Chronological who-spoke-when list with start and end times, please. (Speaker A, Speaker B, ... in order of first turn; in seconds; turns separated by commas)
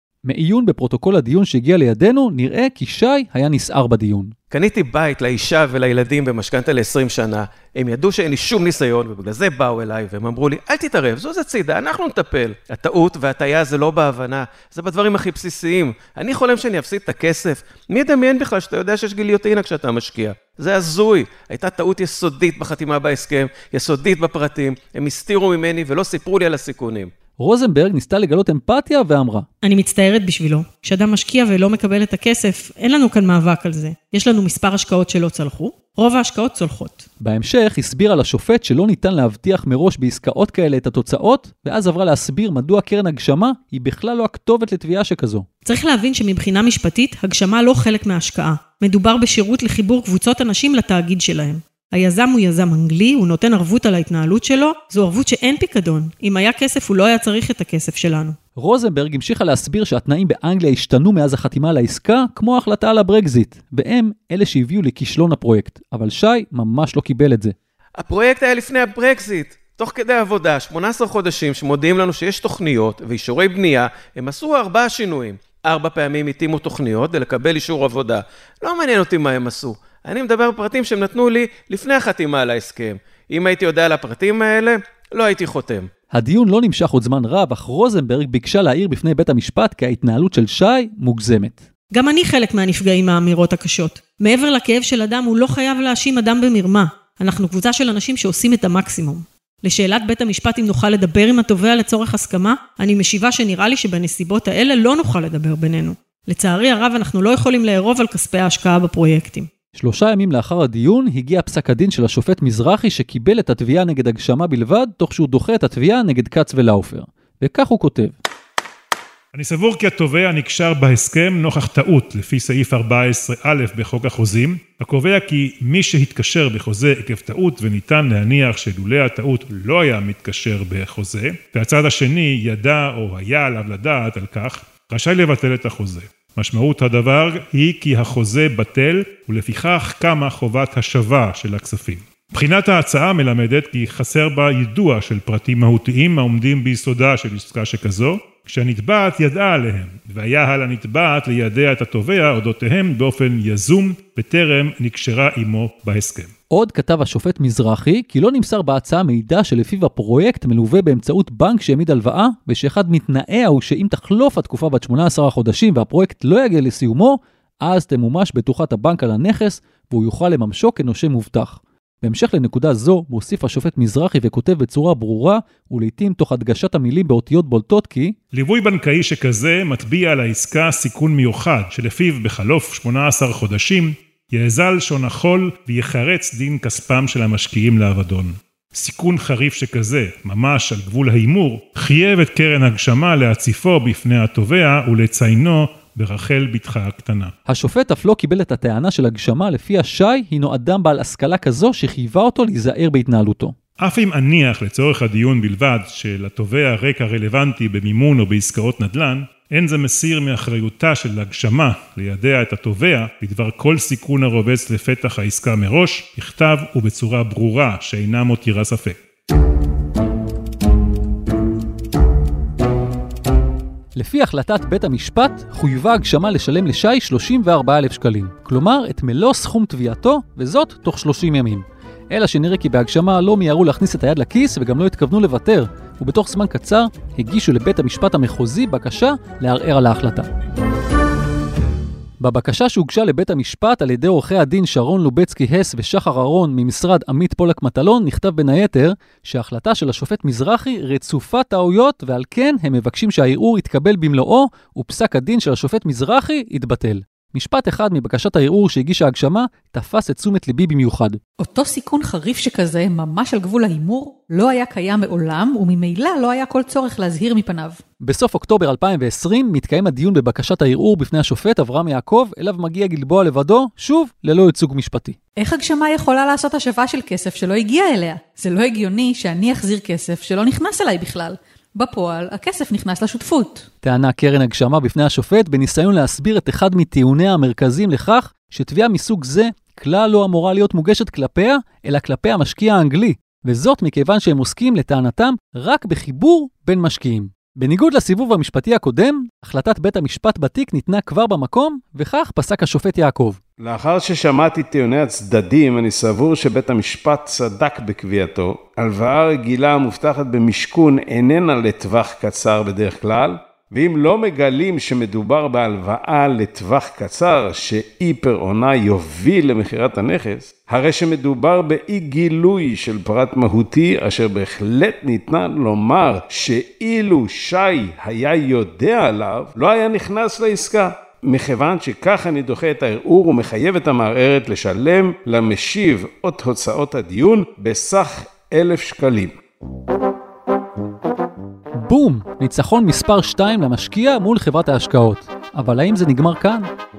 Speaker A: 0.3-4.3, Speaker B: 4.5-27.1, Speaker A: 27.4-29.5, Speaker C: 29.6-37.0, Speaker A: 37.2-45.5, Speaker C: 45.6-58.4, Speaker A: 58.6-67.5, Speaker B: 68.0-85.9, Speaker A: 86.1-91.6, Speaker C: 91.9-109.5, Speaker A: 109.8-118.1, Speaker D: 119.3-156.3, Speaker A: 156.5-178.2, Speaker D: 178.3-197.3, Speaker A: 197.5-203.5, Speaker D: 203.8-219.0, Speaker A: 223.9-240.3, Speaker A: 242.2-261.2, Speaker E: 261.4-267.8, Speaker A: 268.0-275.2, Speaker E: 275.4-283.7, Speaker A: 283.8-303.4, Speaker F: 303.6-339.3, Speaker A: 341.8-346.6